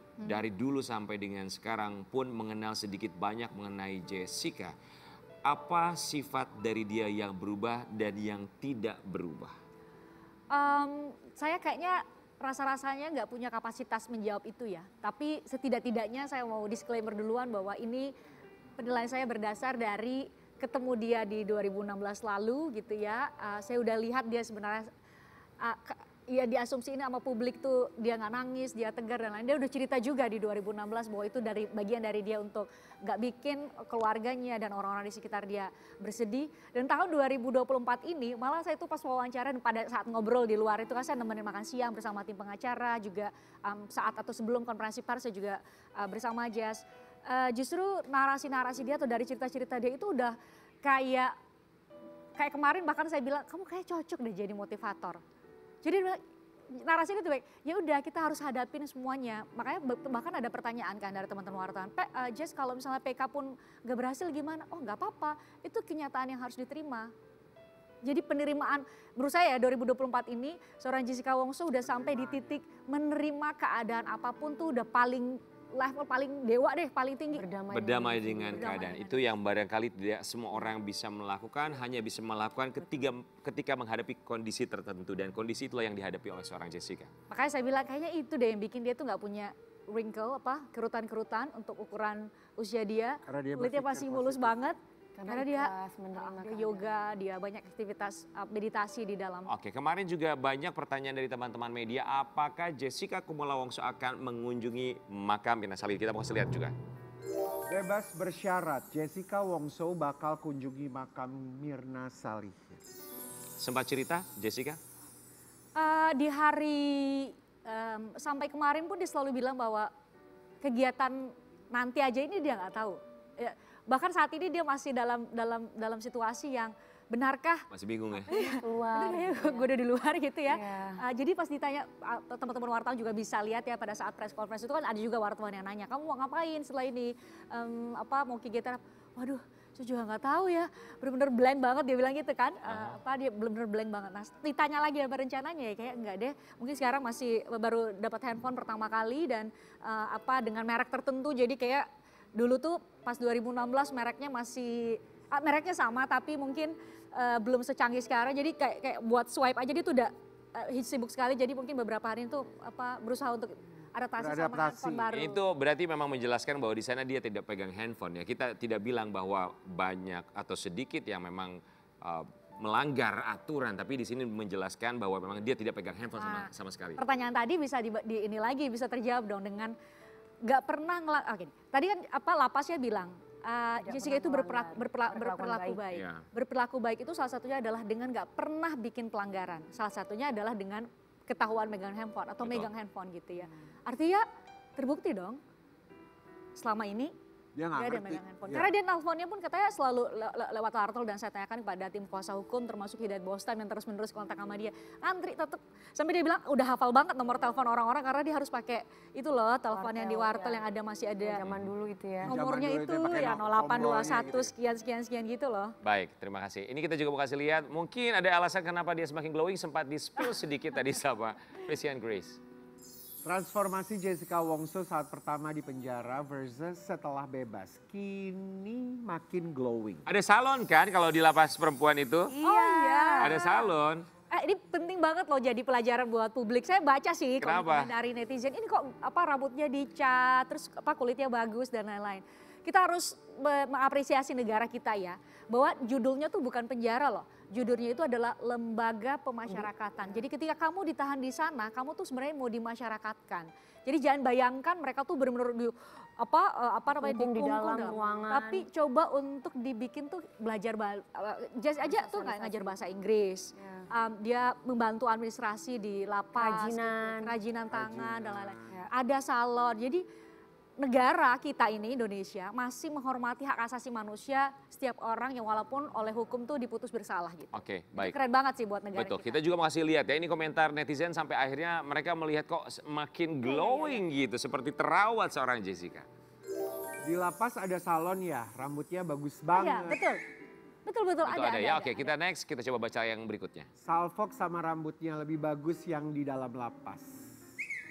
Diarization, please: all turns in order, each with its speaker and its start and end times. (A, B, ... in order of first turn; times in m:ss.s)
0:00.2-0:04.7 A
0:05.4-0:09.6 A
0:10.5-0:18.1 B
0:18.8-0:24.9 B
0:25.6-0:51.3 B
0:52.4-0:55.2 B
0:55.8-0:56.2 B
0:56.7-1:07.1 B
1:08.0-1:17.4 B
1:11.8-1:12.6 C
1:17.3-1:18.7 D
1:17.7-1:27.1 A
1:18.5-1:19.2 B
1:27.3-1:39.5 B
1:33.3-1:34.6 C
1:35.2-1:36.9 D
1:39.5-1:46.7 A
1:47.7-1:52.8 C
1:53.6-1:54.8 A
1:55.8-1:59.9 B
2:00.6-2:07.6 B
2:07.7-2:08.3 A
2:08.3-2:09.7 D
2:08.3-2:45.4 B
2:10.5-2:11.0 D
2:22.7-2:23.0 A
2:44.2-2:45.0 C
2:45.1-2:57.0 A
2:56.2-2:59.7 B
3:00.4-3:14.2 B
3:03.8-3:05.8 D
3:05.9-3:06.2 A
3:14.8-3:15.4 B
3:16.6-3:17.1 B
3:17.6-3:18.7 C
3:17.7-3:31.4 B
3:29.7-3:30.6 D
3:31.2-3:32.4 D
3:32.2-3:35.7 B
3:32.3-3:34.5 C
3:35.8-3:42.4 A
3:43.2-3:50.1 C
3:50.1-3:52.3 A
3:52.3-3:53.4 D
3:52.4-3:53.7 B
3:53.2-3:54.1 A
3:54.3-4:30.0 B
3:57.4-3:57.9 A
4:16.9-4:18.6 D
4:21.8-4:22.8 D
4:23.6-4:23.8 D
4:26.4-4:27.4 D
4:27.7-4:28.8 C
4:30.8-4:39.4 B
4:37.5-4:38.2 A
4:39.0-4:46.1 A
4:43.4-4:44.0 B
4:47.0-4:50.0 C
4:49.6-4:50.2 B
4:50.9-4:52.1 B
4:51.2-4:53.7 A
4:53.8-4:57.3 C